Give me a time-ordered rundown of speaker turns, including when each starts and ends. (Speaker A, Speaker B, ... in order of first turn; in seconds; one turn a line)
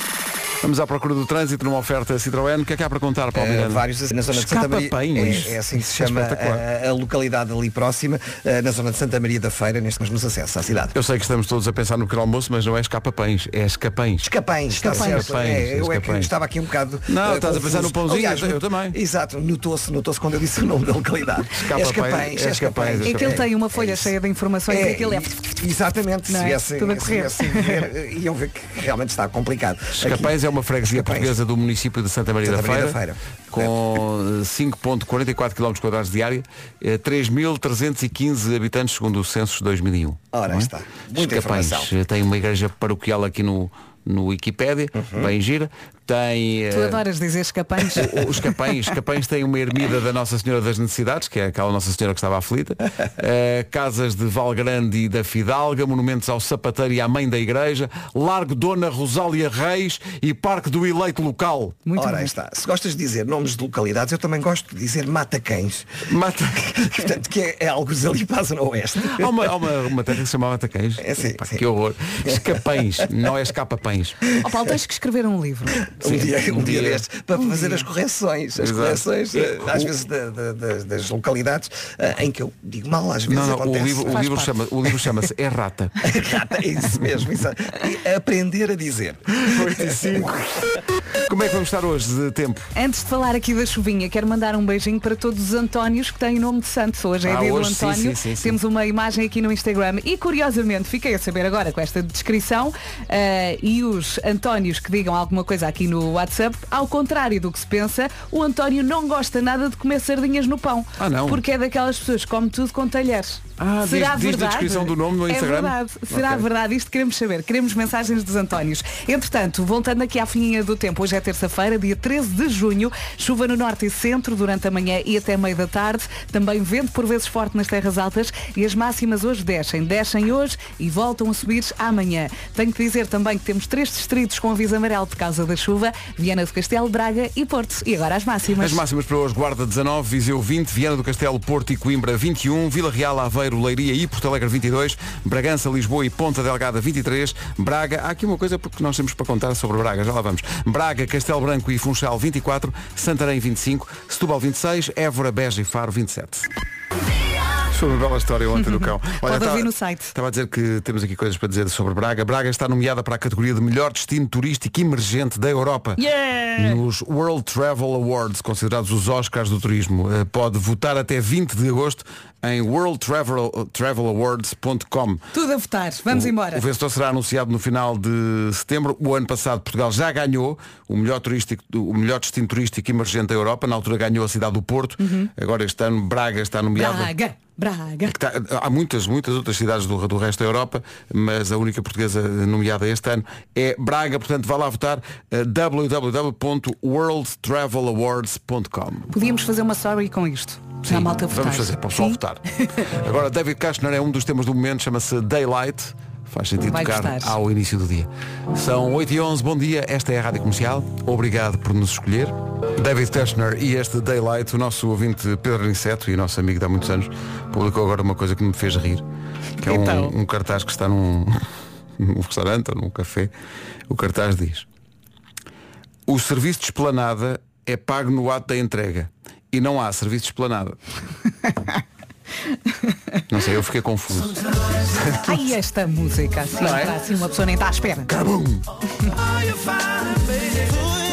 Speaker A: 0.6-6.6
Speaker B: 3.3-10.9
Speaker A: 10.9-16.3
Speaker B: 14.2-24.1
Speaker C: 14.8-15.3
Speaker A: 17.1-19.0
Speaker A: 21.5-23.4
Speaker C: 23.0-25.4
Speaker B: 24.7-31.4
Speaker C: 26.3-27.9
Speaker A: 29.9-33.0
Speaker B: 32.4-33.8
Speaker A: 33.5-47.0
Speaker B: 40.3-41.9
Speaker B: 45.0-45.3
Speaker C: 46.7-48.5
Speaker A: 47.9-61.8
Speaker C: 61.9-62.3
Speaker B: 62.0-66.0
Speaker A: 66.1-67.0
Speaker B: 66.7-69.5
Speaker A: 69.0-74.2
Speaker B: 71.0-71.6
Speaker B: 72.2-73.1
Speaker C: 74.4-75.8
Speaker B: 75.9-84.3
Speaker A: 76.0-77.0
Speaker C: 77.4-77.8
Speaker A: 78.6-79.9
Speaker A: 83.3-86.0
Speaker C: 84.1-84.5
Speaker B: 86.0-90.3
Speaker A: 89.3-92.7
Speaker C: 92.8-138.8
Speaker A: 97.2-98.6
Speaker A: 111.0-111.4
Speaker A: 113.6-116.5
Speaker A: 138.6-156.5
Speaker A: 157.7-166.0
Speaker C: 158.6-160.1
Speaker C: 166.0-166.8
Speaker A: 166.6-175.2
Speaker C: 175.3-176.6
Speaker A: 176.1-187.1
Speaker C: 185.0-185.3
Speaker C: 186.8-188.2
Speaker A: 188.1-199.1
Speaker C: 199.1-202.2
Speaker A: 200.8-219.0
Speaker C: 206.7-207.4
Speaker C: 219.6-220.1
Speaker A: 219.6-221.4
Speaker A: 222.0-223.3
Speaker A: 223.9-224.7
Speaker A: 226.1-230.8
Speaker A: 233.3-235.4
Speaker C: 235.2-238.1
Speaker A: 236.6-237.0
Speaker A: 238.1-238.7